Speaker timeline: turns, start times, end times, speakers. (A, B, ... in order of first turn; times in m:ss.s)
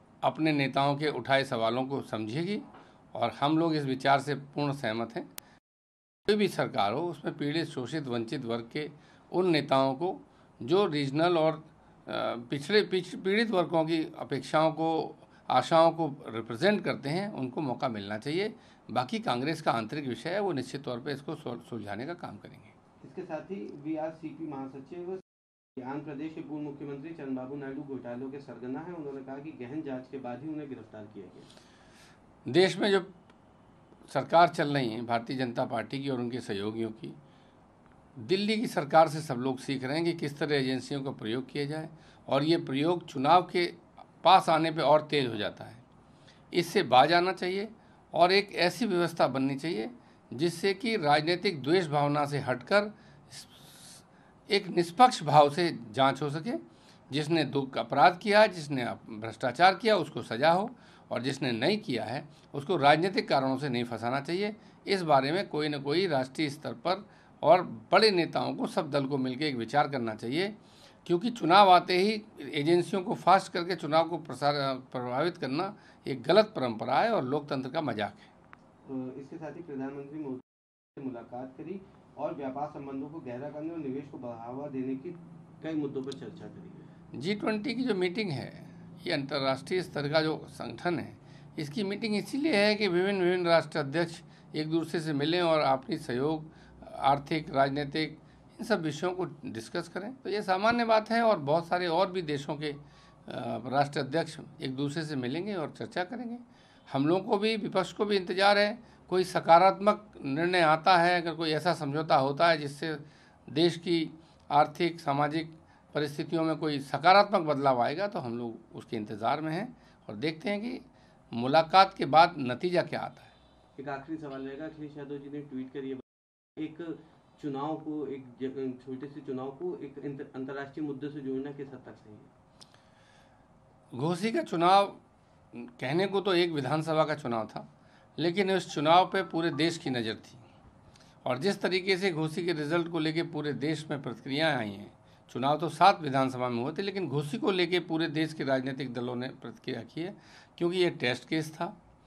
0:00.2-0:05.3 A
0:06.3-0:22.7 A
0:23.0-0:25.2 B
0:25.8-0:31.5 B
0:32.4-0:33.1 A
0:34.1-0:37.2 A
0:38.2-0:45.8 A
0:46.5-1:18.3 A
1:18.8-1:26.9 B
1:27.1-2:03.3 A
2:03.8-2:06.0 B
2:06.6-2:12.3 B
2:13.9-2:15.0 A
2:15.5-2:20.4 A
2:21.2-2:31.8 A